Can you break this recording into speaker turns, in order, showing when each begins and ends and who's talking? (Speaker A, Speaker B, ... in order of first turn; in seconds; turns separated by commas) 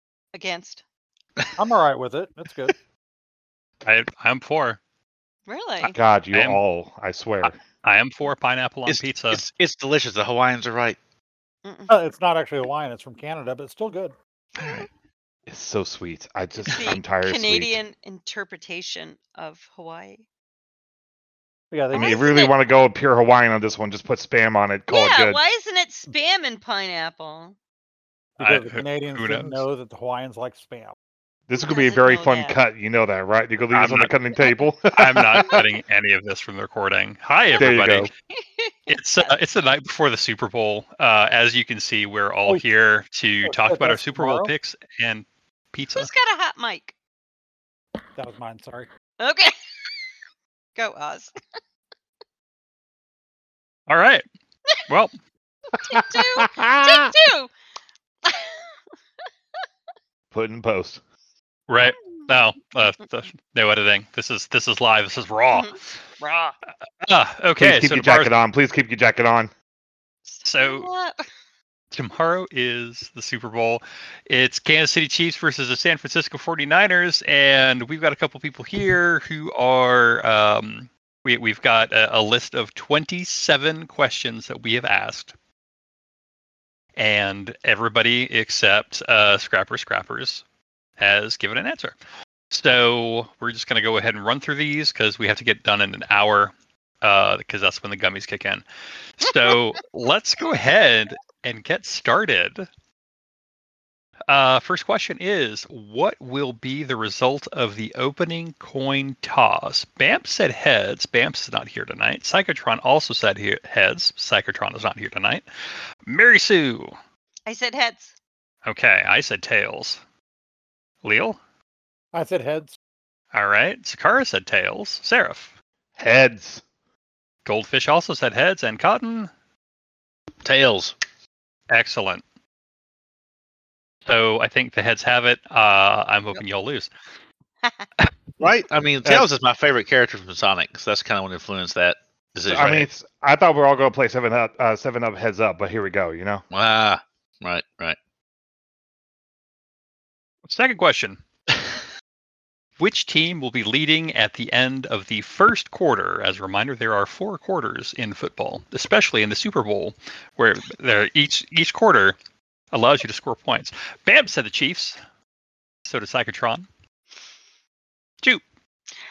Speaker A: 0.3-0.8, Speaker B: 1.6-2.8, Speaker C: 3.8-4.8, Speaker A: 5.5-6.0, Speaker D: 5.8-7.6, Speaker C: 6.3-6.6, Speaker C: 7.5-9.4, Speaker E: 8.9-11.0, Speaker A: 11.7-12.0, Speaker B: 11.9-14.2, Speaker E: 14.6-14.9, Speaker D: 15.5-17.8, Speaker A: 16.6-20.2, Speaker B: 21.7-22.3, Speaker D: 21.9-25.4, Speaker A: 21.9-22.5, Speaker A: 24.9-27.6, Speaker B: 28.4-30.9, Speaker C: 28.4-29.6, Speaker D: 31.5-35.7, Speaker A: 31.6-32.6, Speaker C: 33.7-34.1, Speaker C: 34.9-38.1, Speaker D: 37.6-38.1, Speaker A: 38.3-39.3, Speaker C: 38.9-46.1, Speaker B: 43.4-44.5, Speaker A: 46.0-46.9, Speaker B: 48.2-48.9, Speaker A: 49.2-49.6, Speaker A: 50.8-51.3, Speaker C: 53.9-54.2, Speaker C: 54.9-55.1, Speaker A: 55.8-57.5, Speaker D: 55.9-57.1, Speaker A: 58.2-58.6, Speaker D: 60.3-61.0, Speaker C: 61.7-65.9, Speaker A: 61.8-62.4, Speaker C: 67.0-68.3, Speaker D: 67.6-69.5, Speaker A: 70.3-71.2, Speaker C: 70.5-70.9, Speaker C: 71.9-85.3, Speaker C: 87.0-90.4, Speaker C: 91.0-92.0, Speaker C: 92.5-98.6, Speaker C: 99.2-102.7, Speaker C: 104.3-115.5, Speaker C: 116.0-117.0, Speaker A: 117.5-118.1, Speaker C: 118.7-120.0, Speaker C: 121.0-121.4, Speaker B: 122.1-122.8, Speaker C: 123.3-125.5, Speaker D: 126.0-126.6, Speaker C: 127.5-129.3, Speaker E: 130.4-130.9, Speaker C: 131.7-132.2, Speaker C: 134.1-136.9, Speaker E: 138.4-142.9, Speaker D: 142.5-146.4, Speaker E: 146.5-148.0, Speaker C: 150.4-151.2, Speaker C: 152.8-162.2, Speaker C: 162.7-165.0, Speaker C: 165.8-166.7